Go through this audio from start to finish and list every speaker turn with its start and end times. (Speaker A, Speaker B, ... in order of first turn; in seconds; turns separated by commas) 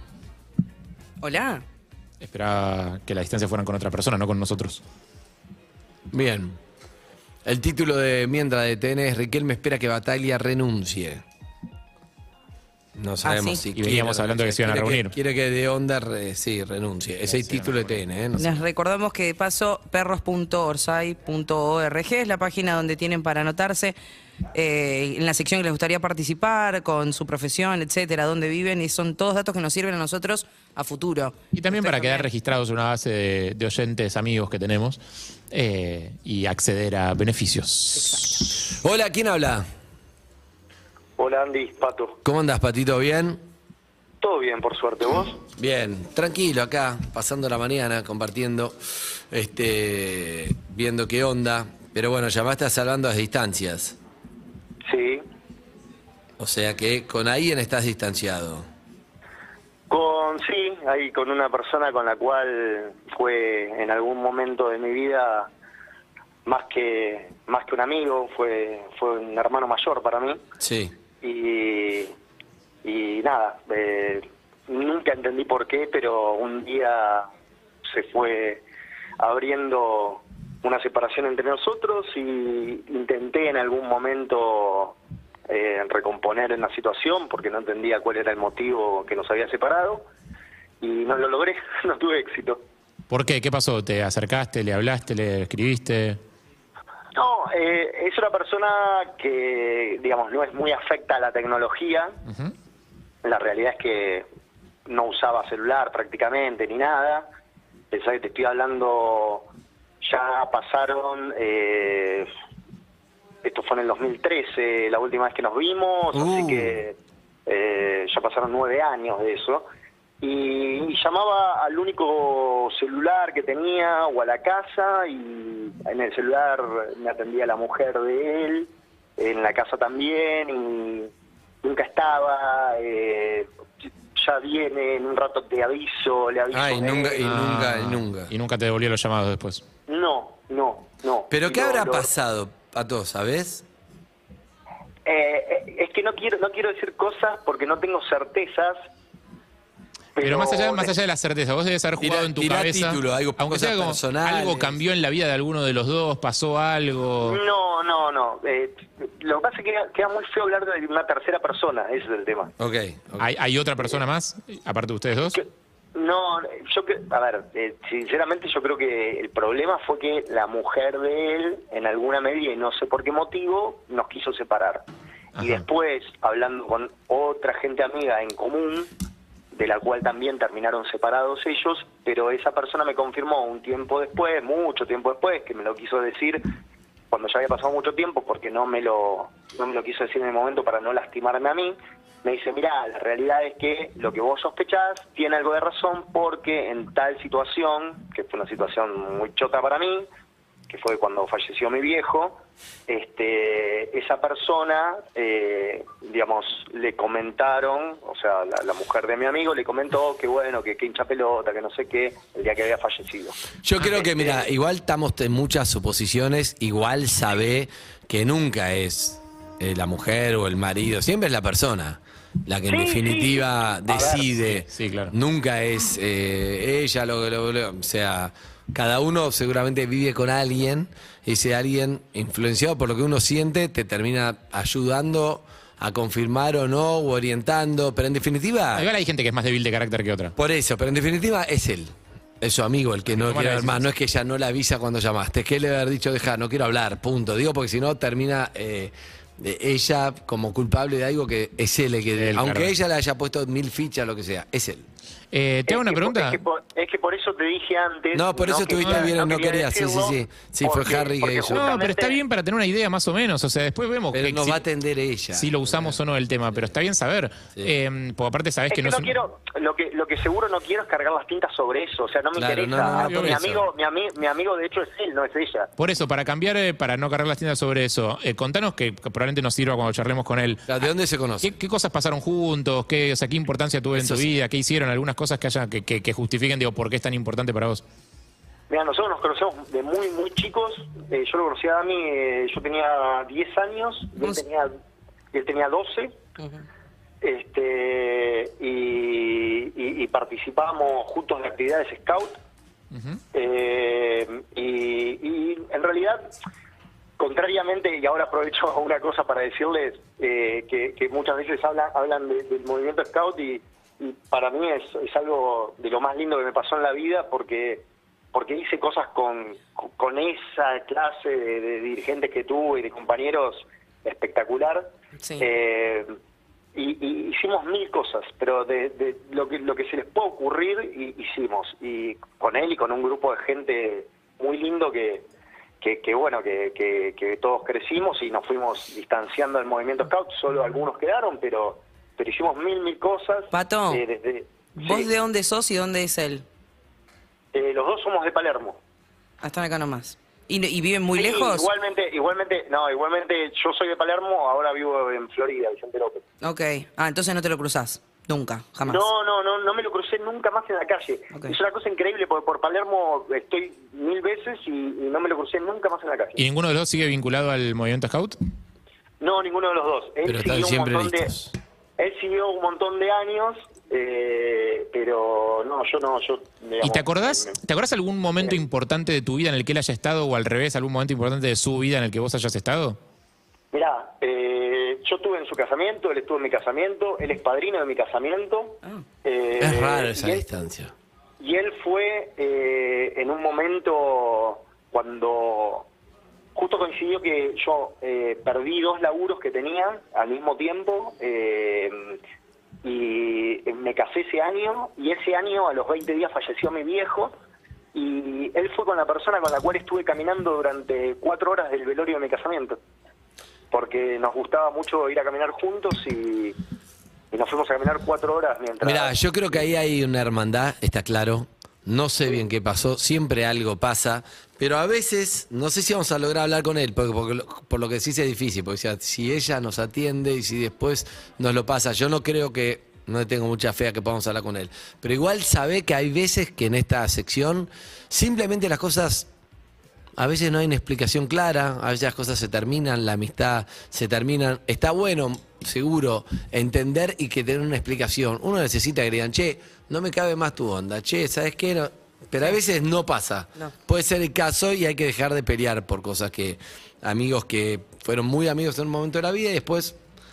Speaker A: 1.2-1.6, Speaker B: 2.2-4.8, Speaker C: 6.1-6.6, Speaker C: 7.5-11.2, Speaker C: 13.0-18.6, Speaker A: 13.2-13.6, Speaker B: 13.8-15.1, Speaker B: 17.3-18.0, Speaker A: 18.3-24.0, Speaker A: 24.5-32.3, Speaker B: 31.5-35.0, Speaker B: 35.5-38.2, Speaker C: 38.6-39.6, Speaker D: 41.2-42.2, Speaker C: 42.2-43.4, Speaker D: 44.2-45.4, Speaker C: 45.6-48.8, Speaker C: 49.3-54.0, Speaker D: 54.9-55.2, Speaker C: 56.4-58.6, Speaker D: 59.9-65.5, Speaker D: 66.5-70.4, Speaker C: 70.6-70.9, Speaker D: 71.2-72.1, Speaker D: 72.8-77.3, Speaker D: 77.8-78.6, Speaker D: 79.2-85.0, Speaker D: 85.5-90.1, Speaker D: 90.8-92.6, Speaker B: 93.1-96.2, Speaker D: 97.2-102.2, Speaker B: 102.3-102.5, Speaker D: 103.2-104.3, Speaker D: 104.9-107.3, Speaker D: 107.9-109.5, Speaker D: 110.0-112.3, Speaker D: 113.4-119.7, Speaker C: 116.1-116.8, Speaker D: 120.2-131.1, Speaker D: 131.6-133.5, Speaker D: 134.2-137.2, Speaker C: 136.5-138.3, Speaker B: 137.2-139.6, Speaker D: 139.9-142.1, Speaker C: 141.3-143.7, Speaker D: 145.1-148.8, Speaker D: 150.2-150.9, Speaker B: 150.2-157.4, Speaker C: 152.0-154.8, Speaker D: 157.2-162.5, Speaker C: 162.6-163.3, Speaker B: 163.2-165.4, Speaker D: 165.3-174.9, Speaker B: 175.3-175.7, Speaker D: 175.4-178.9, Speaker D: 179.5-186.4, Speaker D: 187.1-200.1, Speaker D: 200.7-214.5, Speaker C: 213.6-238.9, Speaker D: 222.7-224.3, Speaker B: 224.7-225.1, Speaker B: 238.8-240.3, Speaker C: 240.4-254.9, Speaker B: 243.1-243.9, Speaker B: 252.2-252.7, Speaker B: 255.3-256.4, Speaker D: 255.7-262.2, Speaker C: 258.1-261.7, Speaker B: 258.8-259.1, Speaker B: 261.5-264.6, Speaker C: 264.1-266.0, Speaker B: 265.3-269.2, Speaker D: 268.7-275.7, Speaker C: 272.4-273.4, Speaker B: 272.8-273.6, Speaker B: 275.8-280.6, Speaker C: 280.7-281.5, Speaker B: 281.4-287.8, Speaker C: 283.9-284.3, Speaker D: 288.7-294.7, Speaker D: 295.3-296.2, Speaker A: 296.4-296.6, Speaker D: 297.2-302.4, Speaker B: 302.9-303.2, Speaker D: 303.3-306.4, Speaker D: 307.2-326.1, Speaker A: 325.2-325.5, Speaker D: 326.8-335.3, Speaker D: 335.8-345.1, Speaker A: 343.5-344.1, Speaker A: 344.8-346.4, Speaker D: 347.5-348.8, Speaker A: 349.4-351.7, Speaker D: 351.1-356.2, Speaker A: 356.4-359.1, Speaker D: 358.9-366.4, Speaker B: 366.4-368.4, Speaker D: 369.2-371.3, Speaker C: 370.2-371.6, Speaker D: 372.0-377.6, Speaker B: 376.8-383.0, Speaker D: 383.7-390.4, Speaker C: 389.6-390.9, Speaker D: 391.4-395.9, Speaker D: 396.6-402.2, Speaker D: 402.8-407.4, Speaker D: 407.9-412.8, Speaker D: 413.7-416.6, Speaker D: 417.3-419.1, Speaker C: 418.8-439.3, Speaker C: 440.2-460.0